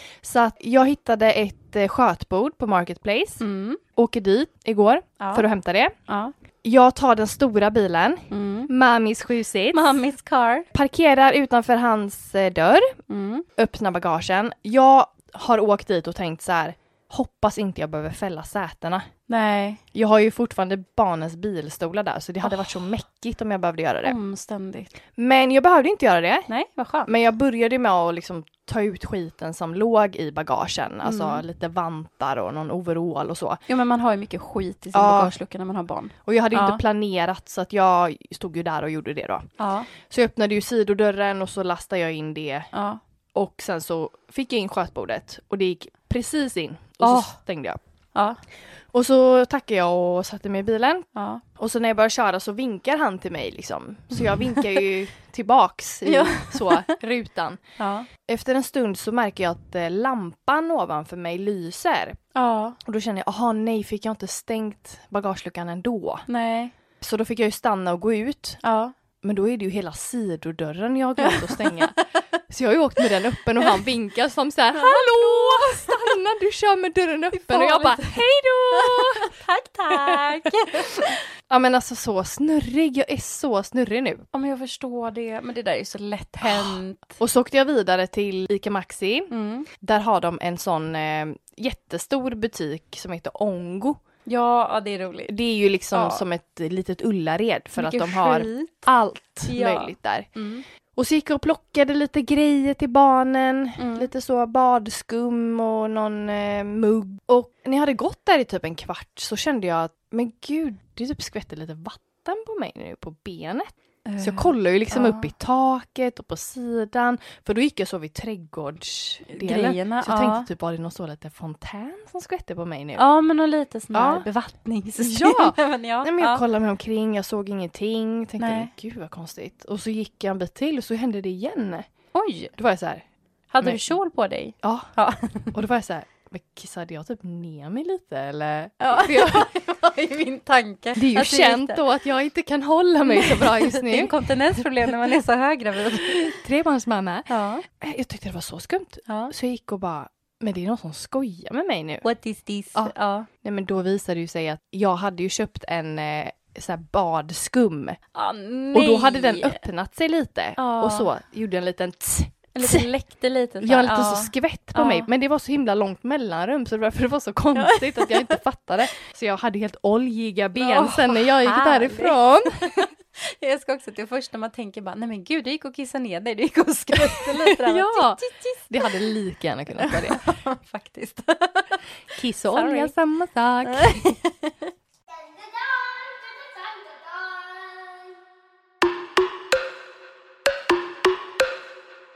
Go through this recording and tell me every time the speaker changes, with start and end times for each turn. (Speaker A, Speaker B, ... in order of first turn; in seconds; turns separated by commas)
Speaker A: 0.2-3.4, Speaker B: 3.4-3.8, Speaker A: 4.0-6.0, Speaker B: 5.2-5.5, Speaker B: 6.1-6.3, Speaker A: 6.6-10.0, Speaker B: 8.3-8.7, Speaker B: 9.7-10.7, Speaker A: 10.7-13.0, Speaker B: 13.1-13.5, Speaker A: 13.6-19.1, Speaker B: 19.3-19.8, Speaker A: 19.9-24.1, Speaker B: 22.4-22.7, Speaker B: 24.0-24.9, Speaker A: 25.2-26.5, Speaker B: 26.5-27.1, Speaker A: 27.1-33.6, Speaker B: 31.0-31.4, Speaker B: 33.7-36.8, Speaker A: 34.9-35.4, Speaker A: 36.3-39.5, Speaker B: 39.6-39.9, Speaker A: 40.0-42.7, Speaker B: 42.7-43.0, Speaker A: 43.4-47.8, Speaker B: 47.0-47.4, Speaker A: 48.9-57.6, Speaker B: 51.1-51.4, Speaker B: 54.4-54.8, Speaker B: 56.1-56.9, Speaker B: 57.8-58.1, Speaker A: 58.3-62.2, Speaker B: 62.4-62.8, Speaker A: 62.8-66.3, Speaker B: 66.3-66.7, Speaker A: 67.0-68.6, Speaker B: 68.6-68.9, Speaker A: 69.2-72.0, Speaker B: 71.2-71.8, Speaker A: 72.5-79.3, Speaker B: 74.7-76.2, Speaker B: 77.3-81.2, Speaker A: 79.9-84.2, Speaker B: 84.3-87.2, Speaker A: 86.4-94.0, Speaker B: 89.3-89.7, Speaker B: 94.3-95.3, Speaker A: 95.3-100.3, Speaker B: 95.9-96.2, Speaker B: 97.8-98.9, Speaker B: 99.5-100.7, Speaker A: 101.0-123.0, Speaker B: 103.8-104.1, Speaker B: 114.0-115.3, Speaker B: 119.3-120.5, Speaker B: 123.0-126.4, Speaker A: 123.9-124.2, Speaker A: 125.0-131.9, Speaker B: 128.4-128.7, Speaker B: 132.1-132.5, Speaker A: 132.6-133.0, Speaker B: 133.5-135.5, Speaker A: 133.6-133.9, Speaker A: 134.6-134.9, Speaker A: 135.5-139.5, Speaker B: 138.8-141.8, Speaker A: 141.0-144.6, Speaker B: 143.1-146.3, Speaker A: 145.9-152.1, Speaker B: 147.3-147.6, Speaker B: 149.1-149.3, Speaker B: 152.0-153.3, Speaker A: 152.8-158.0, Speaker B: 158.1-159.6, Speaker A: 158.7-162.9, Speaker B: 160.6-161.1, Speaker B: 162.5-165.1, Speaker A: 163.6-172.9, Speaker B: 167.6-168.4, Speaker B: 170.6-178.9, Speaker A: 177.0-180.2, Speaker B: 179.8-181.8, Speaker A: 182.2-184.1, Speaker B: 182.5-182.9, Speaker B: 183.7-184.7, Speaker B: 185.6-187.8